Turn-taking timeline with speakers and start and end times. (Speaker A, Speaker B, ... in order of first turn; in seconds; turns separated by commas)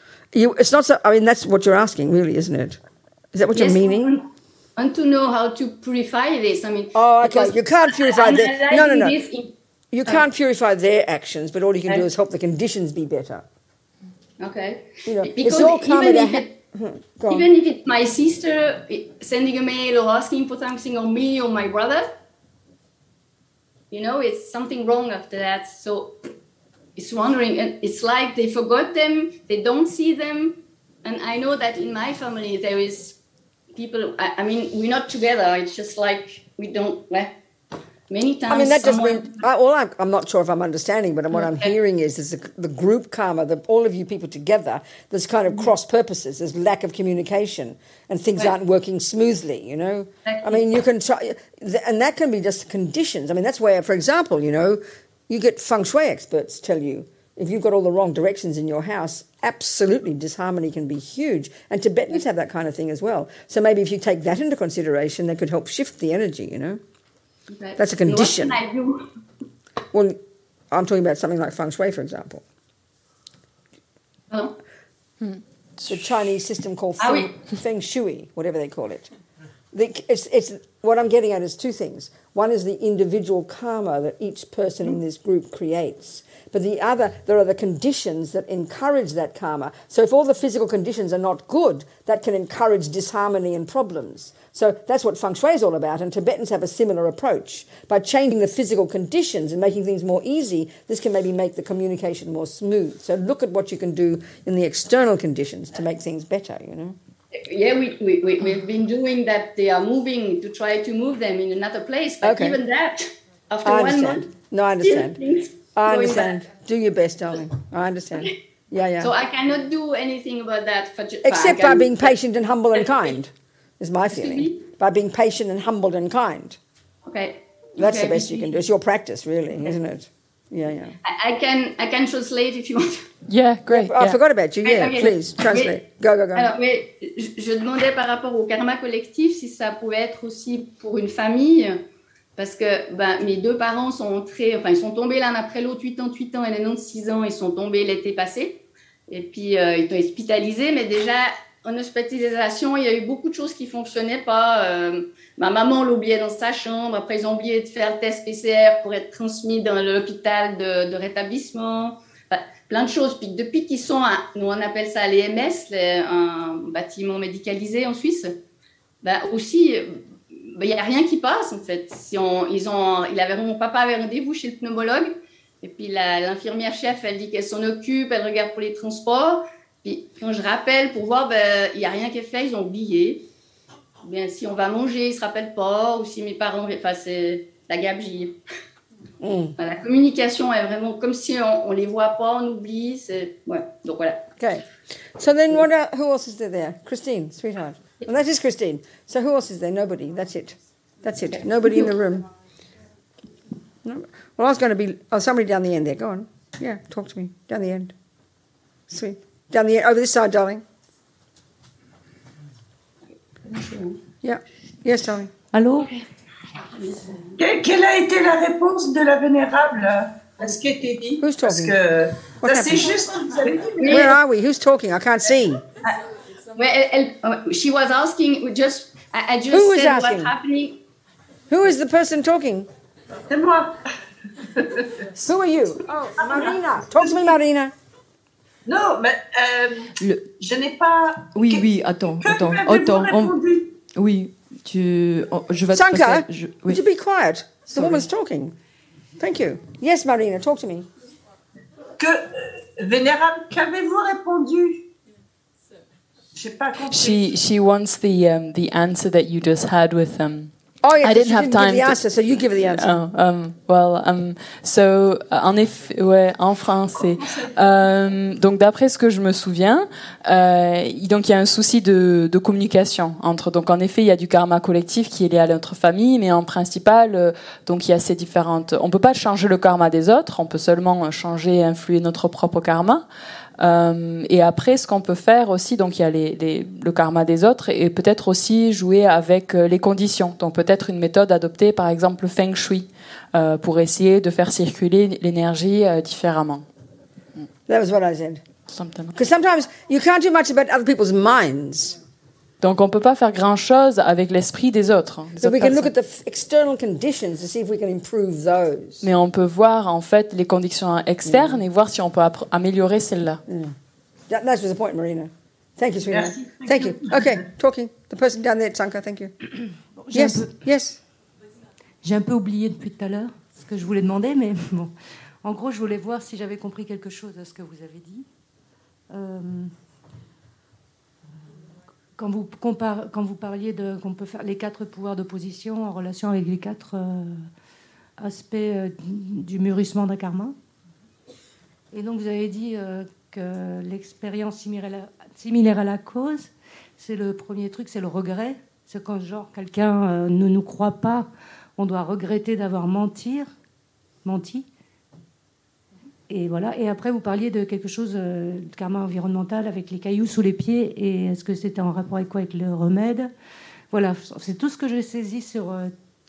Speaker A: 0.3-2.8, Speaker A: 3.3-4.2, Speaker B: 3.5-4.2, Speaker B: 4.8-9.5, Speaker A: 6.9-9.2, Speaker A: 9.9-13.4, Speaker B: 14.4-16.5, Speaker A: 15.1-17.5, Speaker B: 17.3-22.1, Speaker B: 23.9-26.1, Speaker B: 26.9-33.2, Speaker B: 33.7-37.3, Speaker B: 38.1-39.3, Speaker A: 38.5-66.8, Speaker B: 41.3-41.7, Speaker B: 50.2-50.6, Speaker B: 67.5-69.0, Speaker A: 67.8-68.5, Speaker A: 69.9-70.2, Speaker A: 70.7-72.4, Speaker C: 75.2-76.2, Speaker A: 75.9-79.1, Speaker B: 77.0-77.3, Speaker A: 79.7-107.0, Speaker B: 107.3-114.3, Speaker A: 112.2-112.6, Speaker A: 113.6-115.2, Speaker B: 114.8-116.4, Speaker A: 115.7-119.1, Speaker B: 119.0-122.1, Speaker A: 121.2-126.6, Speaker B: 122.7-123.1, Speaker B: 124.1-124.6, Speaker B: 127.0-128.5, Speaker A: 127.8-130.9, Speaker B: 131.0-133.1, Speaker C: 133.3-134.2, Speaker A: 133.7-136.5, Speaker B: 134.6-135.8, Speaker B: 136.3-141.8, Speaker B: 142.4-168.3, Speaker B: 169.0-183.2, Speaker B: 184.0-188.4, Speaker A: 189.2-189.5, Speaker B: 189.6-194.3, Speaker A: 194.4-194.6, Speaker A: 195.2-202.2, Speaker A: 203.8-207.9, Speaker A: 208.9-210.6, Speaker B: 213.4-214.0, Speaker A: 214.2-215.3, Speaker D: 215.5-216.0, Speaker B: 216.8-217.3, Speaker E: 217.4-224.1, Speaker A: 221.2-221.8, Speaker A: 222.4-222.9, Speaker B: 223.8-224.1, Speaker A: 223.8-225.6, Speaker B: 226.5-230.8, Speaker A: 229.5-230.3, Speaker A: 231.5-232.7, Speaker E: 233.3-233.8, Speaker A: 235.2-237.7, Speaker E: 236.2-237.2, Speaker E: 238.7-241.7, Speaker F: 240.0-240.3, Speaker F: 241.3-243.4, Speaker E: 242.2-243.8, Speaker F: 243.9-246.8, Speaker A: 245.7-248.5, Speaker A: 249.2-250.9, Speaker E: 252.0-254.8, Speaker E: 256.4-257.2, Speaker C: 256.9-262.0, Speaker A: 260.8-263.0, Speaker C: 262.6-283.0, Speaker C: 283.6-296.6, Speaker A: 297.7-298.4, Speaker C: 298.7-299.1, Speaker A: 299.1-302.0, Speaker C: 302.6-305.9, Speaker A: 305.4-309.1, Speaker C: 309.0-313.4, Speaker A: 311.2-311.6, Speaker A: 313.5-313.7, Speaker A: 314.3-319.3, Speaker E: 316.1-317.4, Speaker D: 320.0-320.5, Speaker A: 320.1-321.0, Speaker D: 322.0-324.9, Speaker D: 325.4-328.2, Speaker D: 329.1-329.7, Speaker D: 332.2-337.5, Speaker D: 338.2-340.6, Speaker D: 341.9-353.5, Speaker D: 354.2-354.7, Speaker D: 356.3-363.3, Speaker D: 363.9-365.9